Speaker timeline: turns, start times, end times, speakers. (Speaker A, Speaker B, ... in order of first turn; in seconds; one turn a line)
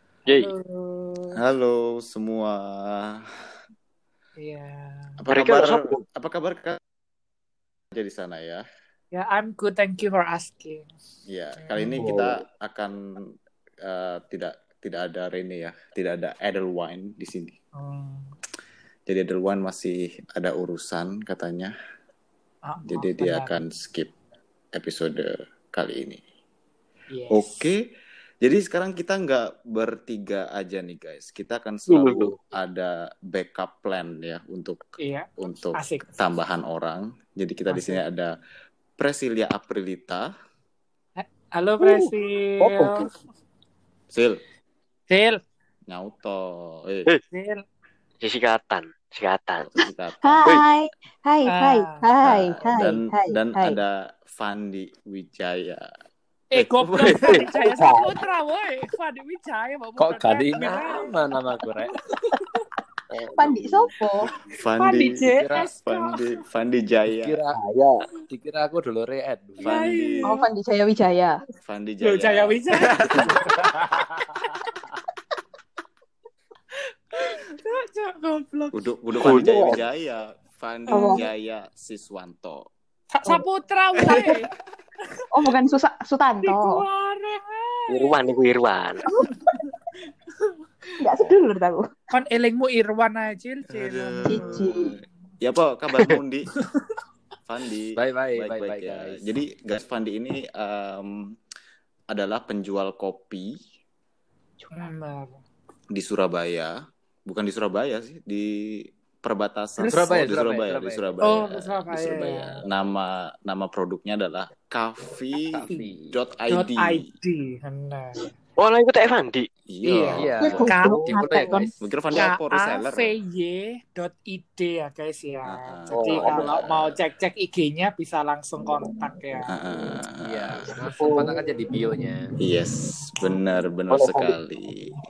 Speaker A: 0.3-0.5
Speaker B: 0.3-1.4
Speaker C: 1.3-3.3
Speaker B: 4.4-5.2
Speaker C: 5.2-6.8
Speaker A: 5.3-6.0
Speaker C: 7.9-8.6
Speaker B: 9.1-10.9
Speaker C: 11.3-12.9
Speaker B: 11.6-11.9
Speaker D: 12.0-12.3
Speaker C: 13.8-17.6
Speaker B: 17.8-18.3
Speaker C: 19.1-21.7
Speaker B: 22.6-23.6
Speaker C: 22.9-24.1
Speaker C: 24.7-26.2
Speaker B: 27.1-27.7
Speaker C: 27.3-27.8
Speaker C: 28.4-34.8
Speaker A: 31.9-32.3
Speaker B: 35.0-36.0
Speaker C: 35.4-38.3
Speaker B: 37.7-38.0
Speaker C: 39.0-40.3
Speaker B: 41.2-43.0
Speaker C: 44.1-44.4
Speaker B: 45.1-45.4
Speaker C: 45.9-47.1
Speaker B: 47.3-47.6
Speaker A: 48.2-49.7
Speaker C: 49.6-50.6
Speaker E: 50.2-53.8
Speaker B: 51.5-52.0
Speaker C: 52.2-55.9
Speaker B: 56.5-61.2
Speaker C: 56.5-57.6
Speaker D: 57.8-58.1
Speaker D: 60.0-62.0
Speaker B: 61.8-62.6
Speaker D: 63.2-63.7
Speaker E: 63.4-64.3
Speaker C: 63.4-63.7
Speaker C: 64.5-65.2
Speaker B: 64.8-66.2
Speaker D: 65.3-65.7
Speaker C: 65.8-67.4
Speaker D: 67.1-69.8
Speaker A: 67.6-67.9
Speaker C: 69.6-70.4
Speaker B: 69.6-70.4
Speaker E: 70.2-71.4
Speaker C: 71.6-73.5
Speaker B: 72.0-74.6
Speaker B: 77.1-78.9
Speaker C: 78.7-82.7
Speaker A: 79.2-79.8
Speaker B: 80.9-81.2
Speaker E: 80.9-81.2
Speaker B: 83.1-84.5
Speaker C: 84.0-84.4
Speaker E: 85.3-86.8
Speaker B: 86.4-88.1
Speaker A: 87.9-89.0
Speaker B: 89.3-89.7
Speaker E: 91.0-91.9
Speaker B: 92.1-94.8
Speaker C: 93.7-96.5
Speaker E: 94.2-94.9
Speaker C: 97.5-101.3
Speaker D: 97.9-99.3
Speaker C: 102.1-103.5
Speaker B: 104.7-105.4
Speaker C: 105.9-106.7
Speaker C: 107.3-117.1
Speaker B: 109.8-110.0
Speaker D: 109.9-111.0
Speaker B: 111.2-112.6
Speaker D: 115.5-116.2
Speaker B: 116.5-118.3
Speaker A: 118.6-119.5
Speaker C: 119.7-120.7
Speaker B: 119.8-121.6
Speaker D: 120.1-121.8
Speaker E: 120.4-121.7
Speaker C: 121.8-123.1
Speaker B: 122.1-129.5
Speaker C: 125.5-127.0
Speaker A: 125.9-126.2
Speaker C: 129.5-130.7
Speaker D: 130.2-132.3
Speaker A: 131.0-131.3
Speaker C: 132.4-135.0
Speaker A: 133.9-134.3